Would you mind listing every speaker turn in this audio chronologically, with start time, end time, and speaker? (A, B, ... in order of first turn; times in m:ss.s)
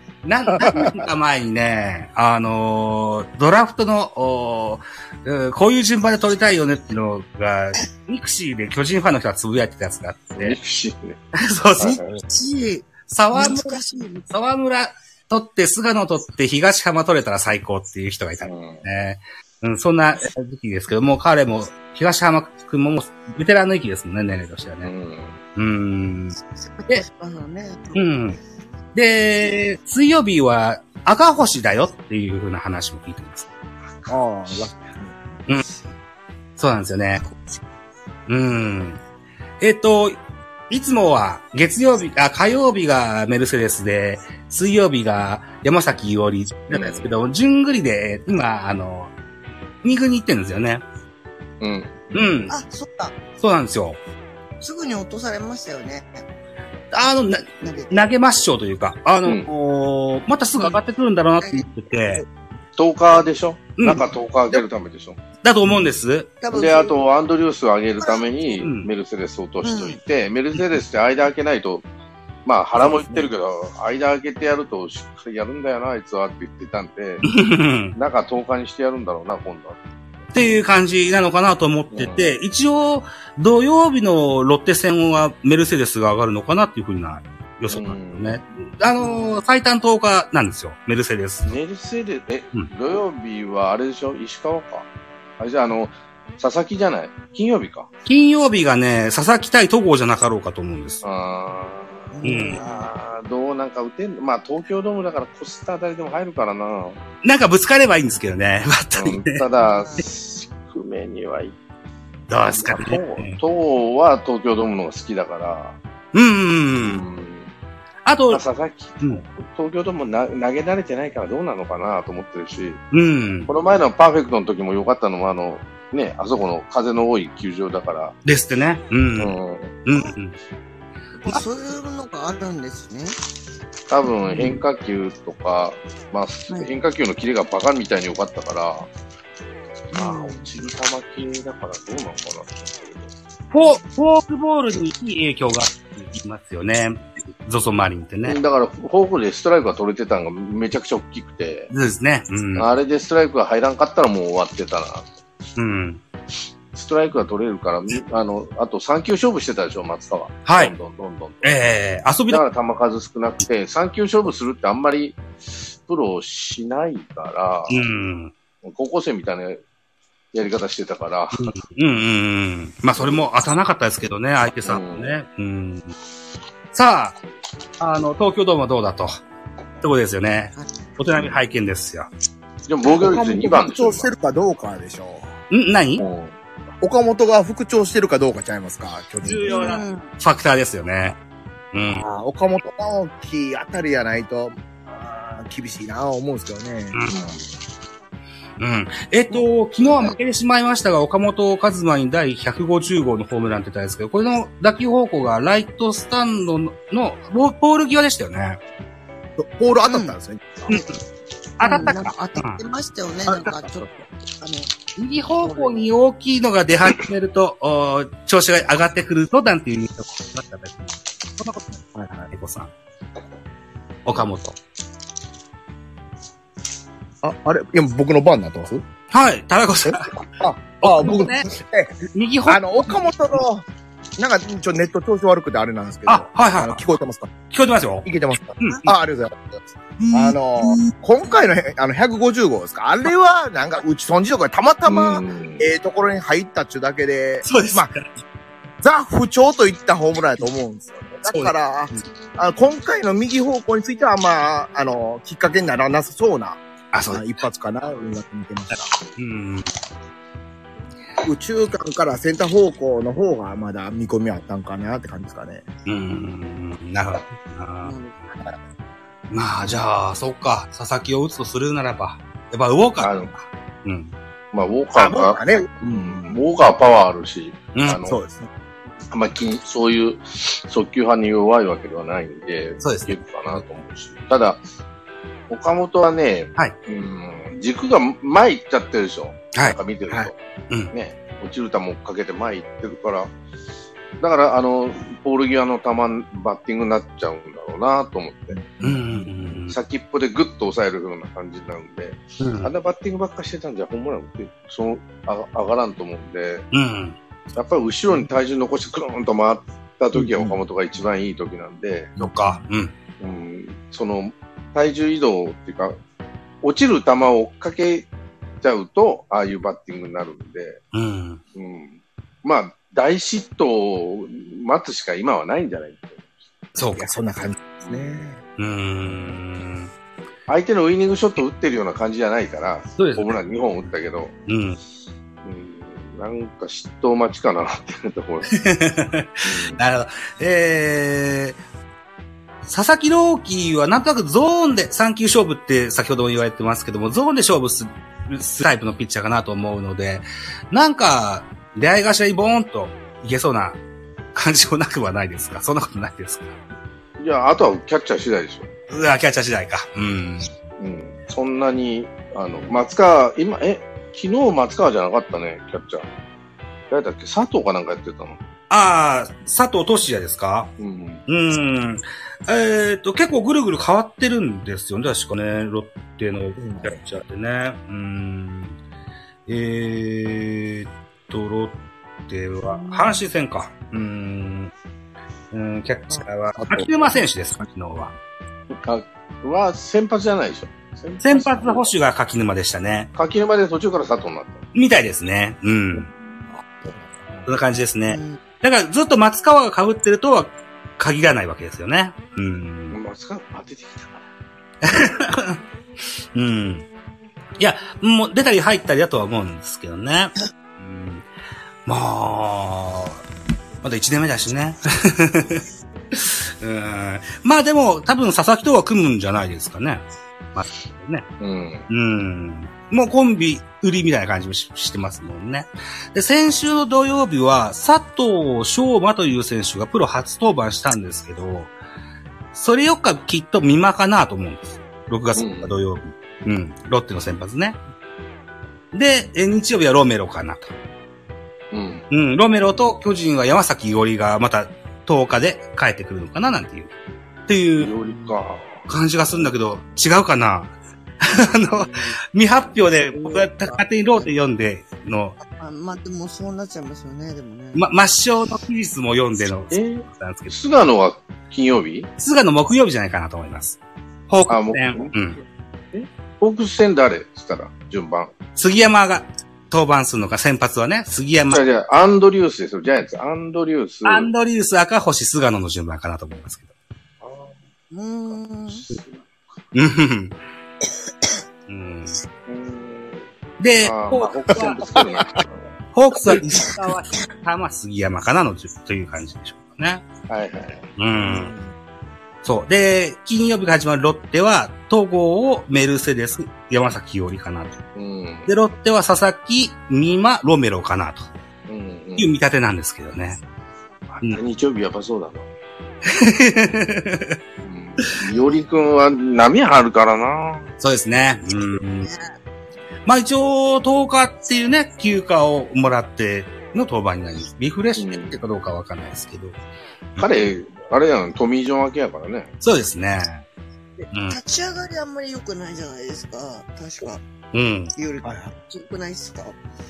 0:00.2-0:10.6 A
0:00.6-0:01.0 B
0:10.4-0:11.2 C
0:11.3-0:12.0 A
0:11.8-0:12.2 C
0:11.8-0:14.2 D
0:13.0-0:24.9 A
0:18.4-0:18.8 C
0:24.8-0:25.4 C
0:25.6-0:27.0 A
0:26.6-0:28.1 D
0:27.9-0:28.4 A
0:28.9-0:33.5 A
0:33.9-0:34.8 C
0:34.1-0:35.2 B
0:36.6-0:37.2 A
0:37.2-0:37.5 D
0:38.3-0:39.0 A
0:39.6-0:49.1 A
0:46.7-0:47.1 C
0:49.8-0:50.8 A
0:51.6-0:52.1 C
0:52.1-0:52.5 A
0:52.5-0:53.2 D
0:53.4-0:54.0 A
0:54.6-0:56.2 D
0:56.9-1:02.2 A
0:57.6-0:58.1 D
1:01.4-1:02.2 D
1:02.8-1:05.2 C
1:03.8-1:04.6 A
1:05.4-1:06.4 A
1:06.4-1:06.9 D
1:06.5-1:11.9 C
1:08.0-1:08.5 D
1:08.6-1:08.9 A
1:09.6-1:10.0 D
1:12.4-1:17.2 C
1:12.8-1:13.3 B
1:17.2-1:17.9 A
1:17.9-1:19.8 C
1:20.3-1:31.6 A
1:21.9-1:22.4 C
1:27.7-1:28.4 C
1:29.0-1:29.4 D
1:31.4-1:34.9 C
1:35.4-1:37.9 C
1:38.0-1:41.0 A
1:41.0-1:47.0 C
1:42.1-1:42.9 D
1:42.2-1:42.6 A
1:47.2-1:49.4 A
1:49.0-1:51.6 C
1:49.6-1:50.0 D
1:52.3-1:53.4 A
1:52.5-1:55.8 C
1:56.1-1:57.0 A
1:56.8-1:57.5 C
1:58.0-1:58.4 A
1:58.3-2:02.8 C
2:02.9-2:03.5 A
2:03.5-2:08.2 C
2:08.2-2:09.4 A
2:09.2-2:09.8 C
2:09.9-2:10.4 A
2:11.2-2:13.2 D
2:13.9-2:18.9 C
2:19.9-2:23.1 C
2:19.9-2:20.5 D
2:23.5-2:28.4 A
2:28.2-2:31.7 C
2:31.7-2:32.7 A
2:32.6-2:35.2 C
2:35.6-2:36.0 A
2:36.7-2:41.5 C
2:40.4-2:40.7 A
2:41.4-2:42.4 A
2:42.3-2:45.2 C
2:45.8-2:47.8 C
2:47.7-2:48.3 A
2:48.6-2:49.6 C
2:50.3-2:51.6 C
2:51.4-2:55.9 A
2:53.0-2:53.2 C
2:54.6-2:55.1 C
2:56.7-2:57.2 A
2:57.8-2:59.2 A
2:59.8-3:02.1 A
3:02.7-3:04.1 C
3:02.9-3:05.3 B
3:05.5-3:06.0 A
3:06.0-3:06.4 C
3:06.8-3:09.6 B
3:09.2-3:11.2 A
3:09.5-3:10.1 D
3:11.7-3:12.0 A
3:11.9-3:17.0 B
3:17.1-3:17.4 C
3:18.6-3:28.6 A
3:19.3-3:20.1 D
3:29.4-3:30.8 B
3:29.9-3:30.2 D
3:31.6-3:32.6 A
3:31.6-3:34.7 D
3:33.3-3:34.0 B
3:35.0-3:41.7 A
3:35.4-3:35.9 D
3:41.9-3:42.3 B
3:42.3-3:42.7 A
3:44.0-3:44.6 A
3:47.2-3:48.8 B
3:49.1-3:50.1 A
3:49.8-3:53.6 B
3:50.8-3:51.5 A
3:52.1-3:53.0 A
3:54.2-3:57.3 B
3:56.1-3:56.8 A
3:57.5-3:58.1 A
3:58.0-4:07.9 B
4:00.0-4:00.4 A
4:04.9-4:05.7 C
4:07.4-4:08.0 A
4:08.8-4:18.9 B
4:11.3-4:11.5 A
4:16.9-4:17.3 A
4:19.2-4:19.7 A
4:21.2-4:25.6 B
4:25.9-4:27.9 A
4:27.8-4:28.2 D
4:29.3-4:34.1 A
4:33.0-4:33.3 C
4:34.5-4:38.2 C
4:34.9-4:36.4 B
4:37.8-4:38.0 A
4:38.0-4:38.5 B
4:39.1-4:44.6 C
4:42.8-4:43.2 A
4:45.5-4:50.4 C
4:50.9-4:53.3 C
4:54.2-4:58.6 C
4:58.5-4:59.6 B
4:58.8-4:59.8 A
4:59.7-5:06.6 C
5:02.4-5:02.7 A
5:06.7-5:07.2 A
5:07.5-5:12.1 C
5:10.2-5:10.5 B
5:12.2-5:12.9 A
5:12.2-5:12.6 B
5:13.2-5:16.0 C
5:16.6-5:18.1 C
5:18.6-5:20.8 C
5:20.9-5:21.4 A
5:21.5-5:26.2 C
5:26.8-5:27.1 A
5:27.0-5:28.4 B
5:27.9-5:28.1 C
5:28.6-5:29.9 A
5:30.5-5:34.3 C
5:33.0-5:33.4 A
5:34.5-5:34.8 A
5:35.4-5:38.5 C
5:38.5-5:41.6 A
5:39.4-5:39.8 C
5:42.6-5:53.8 A
5:54.3-5:56.6 A
5:57.2-5:58.7 C
5:58.9-6:00.5 A
6:00.8-6:06.1 C
6:06.9-6:08.4 C
6:08.7-6:10.7 A
6:10.8-6:11.2 C
6:11.3-6:18.8 A
6:16.6-6:17.0 B
6:19.5-6:24.7 A
6:22.6-6:23.2 D
6:25.5-6:28.1 A
6:26.5-6:27.1 B
6:28.7-6:31.9 C
6:31.2-6:33.1 A
6:33.1-6:34.6 C
6:34.7-6:36.1 A
6:36.5-6:37.4 B
6:37.4-6:43.0 A
6:38.0-6:38.4 D
6:42.9-6:44.2 C
6:44.8-6:45.6 A
6:46.3-6:46.9 A
6:47.6-6:51.2 A
6:51.9-6:53.2 A
6:53.8-7:01.3 A
7:01.4-7:01.9 C
7:01.9-7:11.7 A
7:12.5-7:17.8 A
7:15.4-7:15.8 C
7:18.9-7:20.7 A
7:21.7-7:22.0 C
7:22.1-7:26.9 A
7:27.5-7:27.9 A
7:27.8-7:28.9 C
7:28.1-7:28.3 D
7:28.9-7:35.4 A
7:33.2-7:34.3 D
7:35.5-7:37.9 D
7:37.7-7:40.6 A
7:39.7-7:42.1 C
7:42.2-7:45.4 A
7:44.5-7:45.2 C
7:45.9-7:48.3 C
7:48.6-7:51.6 A
7:51.5-7:54.3 C
7:54.0-7:56.7 A
7:57.2-7:57.6 C
7:57.9-7:58.8 D
7:58.3-7:59.3 C
7:59.7-8:00.4 A
8:01.7-8:02.2 A
8:02.4-8:03.3 C
8:03.6-8:04.9 A
8:03.8-8:05.7 C
8:05.9-8:10.0 A
8:10.3-8:10.9 C
8:11.0-8:11.5 A
8:11.2-8:11.7 B
8:12.4-8:17.8 A
8:17.9-8:18.5 C
8:18.5-8:21.3 A
8:21.7-8:22.3 C
8:22.2-8:23.4 A
8:24.1-8:25.5 C
8:26.1-8:27.4 A
8:27.6-8:30.7 C
8:30.8-8:32.1 A
8:32.0-8:32.3 D
8:33.1-8:39.6 A
8:38.0-8:38.4 C
8:40.2-8:42.5 C
8:42.6-8:43.4 A
8:44.1-8:44.4 A
8:44.3-8:47.2 D
8:47.5-8:47.9 A
8:47.9-8:49.6 D
8:48.2-8:48.6 B